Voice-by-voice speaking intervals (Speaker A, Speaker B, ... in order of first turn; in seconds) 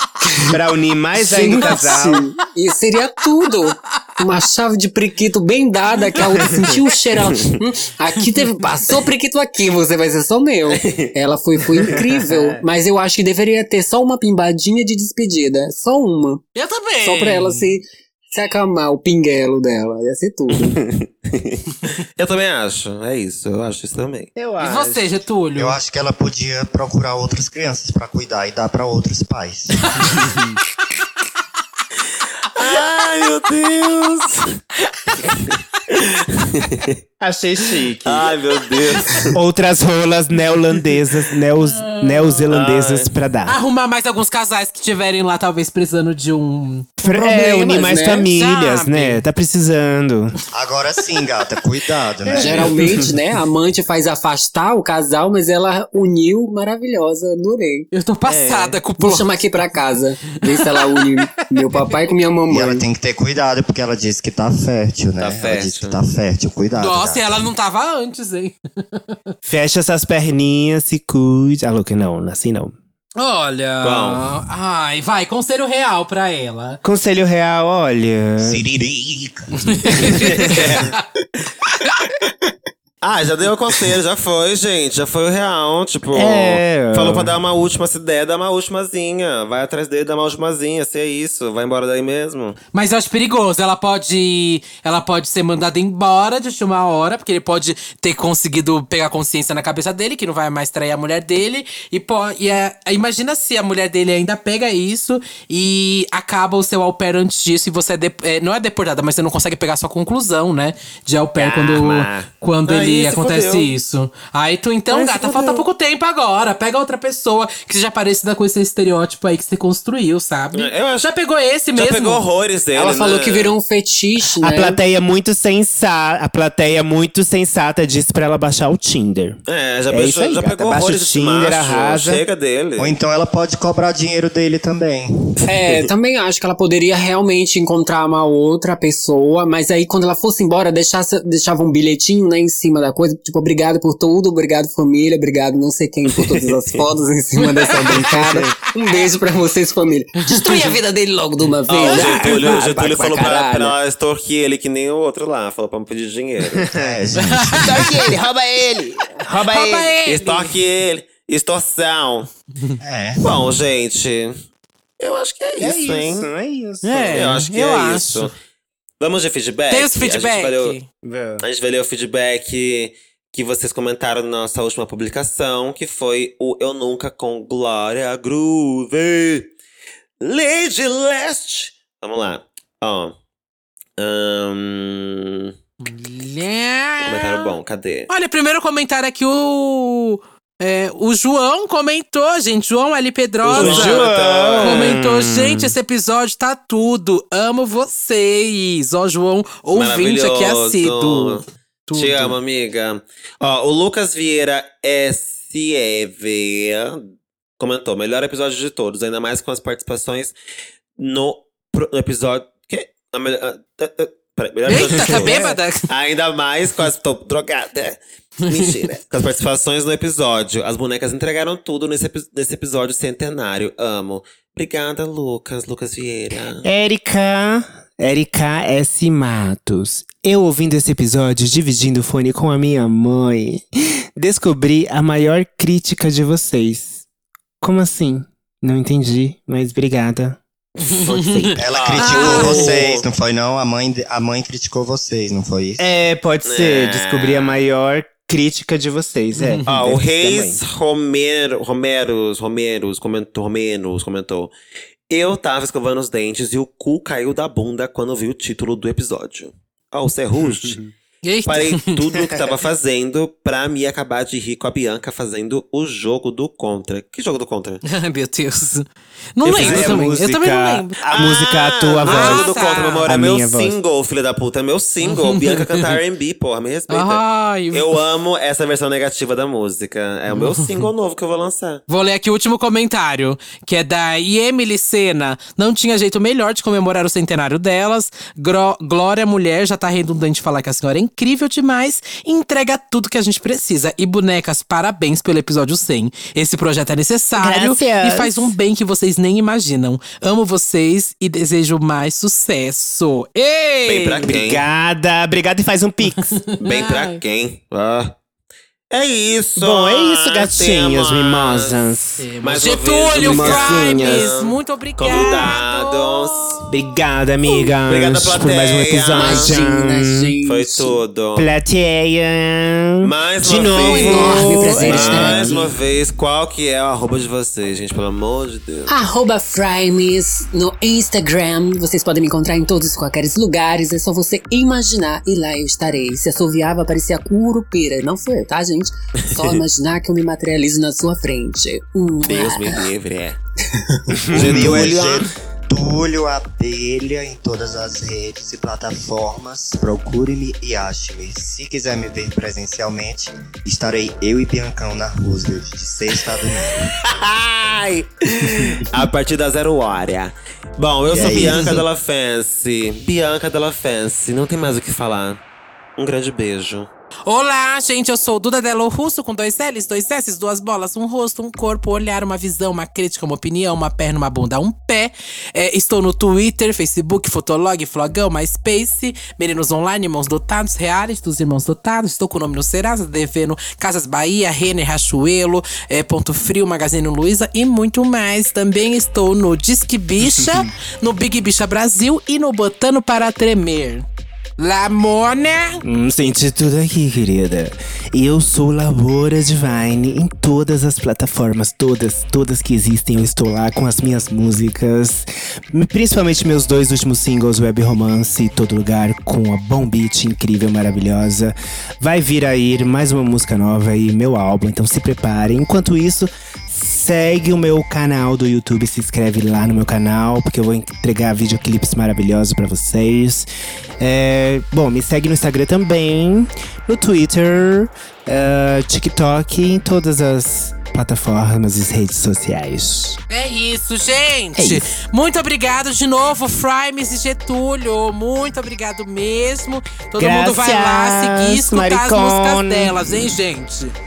Speaker A: 0.2-0.5, 1.2-16.4, 17.0-20.8, 47.1-48.3, 52.3-57.9, 58.9-62.8, 122.7-124.8, 135.5-153.7, 319.1-321.0, 323.6-325.8, 328.9-342.9, 343.7-344.2
Speaker B: 0.5-2.2, 24.4-25.1, 37.2-38.3, 39.3-43.6, 47.0-50.3, 52.4-52.9, 58.2-58.8, 69.4-72.7, 76.8-78.6, 86.1-87.4, 124.4-132.2, 151.8-152.5, 156.6-157.0, 157.5-159.9, 165.6-167.3, 171.0-171.4, 193.5-195.7, 214.8-215.5, 226.6-237.0, 237.6-240.4, 245.8-250.6, 260.5-260.9, 269.6-272.4, 273.0-273.7, 297.4-298.5, 304.2-306.4, 309.6-312.3, 313.2-314.3, 315.1-315.5, 316.7-320.3, 321.3-325.5, 344.3-345.3, 395.8-423.5, 424.0-433.2, 434.6-434.9, 440.2-443.3
Speaker C: 1.5-2.1, 6.1-6.9, 16.5-17.7, 24.6-25.8, 34.9-35.2, 41.6-42.5, 43.5-46.9, 48.2-49.2, 57.9-59.3, 60.4-61.9, 66.7-69.2, 73.2-76.8, 79.8-80.4, 92.7-122.2, 147.4-148.1, 150.3-150.8, 157.3-157.7, 159.4-160.6, 166.8-168.3, 169.7-170.8, 185.8-187.5, 188.1-194.1, 194.6-202.4, 214.7-215.9, 241.1-242.8, 249.3-249.6, 261.2-262.2, 267.8-268.8, 269.4-271.4, 272.0-273.1, 275.0-275.8, 276.9-277.9, 280.3-280.8, 281.9-304.3, 306.3-307.2, 312.2-316.6, 361.2-361.7, 367.3-394.1, 394.6-395.8, 433.3-443.9
Speaker D: 10.7-11.1, 20.6-24.3, 32.5-34.6, 35.2-37.0, 38.0-39.3, 42.5-43.1, 65.2-66.0, 73.8-74.3, 80.0-80.9, 83.0-92.6, 111.3-113.7, 114.9-115.6, 120.5-121.1, 121.7-123.5, 129.4-132.9, 146.1-146.8, 151.7-156.7, 160.1-162.3, 163.2-164.4, 165.0-166.3, 167.1-168.3, 169.0-170.8, 171.4-179.5, 180.2-183.1, 184.0-185.5, 187.0-188.1, 193.4-195.0, 199.7-207.1, 207.6-210.3, 211.0-226.7, 240.8-243.1, 246.4-247.6, 249.6-254.5, 255.1-260.8, 261.4-267.8, 269.4-270.1, 271.1-281.8, 303.9-304.6, 306.6-308.1, 308.9-311.8, 312.4-316.7, 317.5-319.6, 320.4-321.5, 323.0-328.9, 342.2-343.4, 344.3-345.2, 357.0-365.4, 366.0-366.9
Speaker E: 25.5-30.3, 50.5-53.0, 62.5-67.5, 78.4-80.7, 132.8-135.8, 156.7-157.7, 162.8-163.5, 241.5-245.8, 344.3-356.9, 361.1-361.8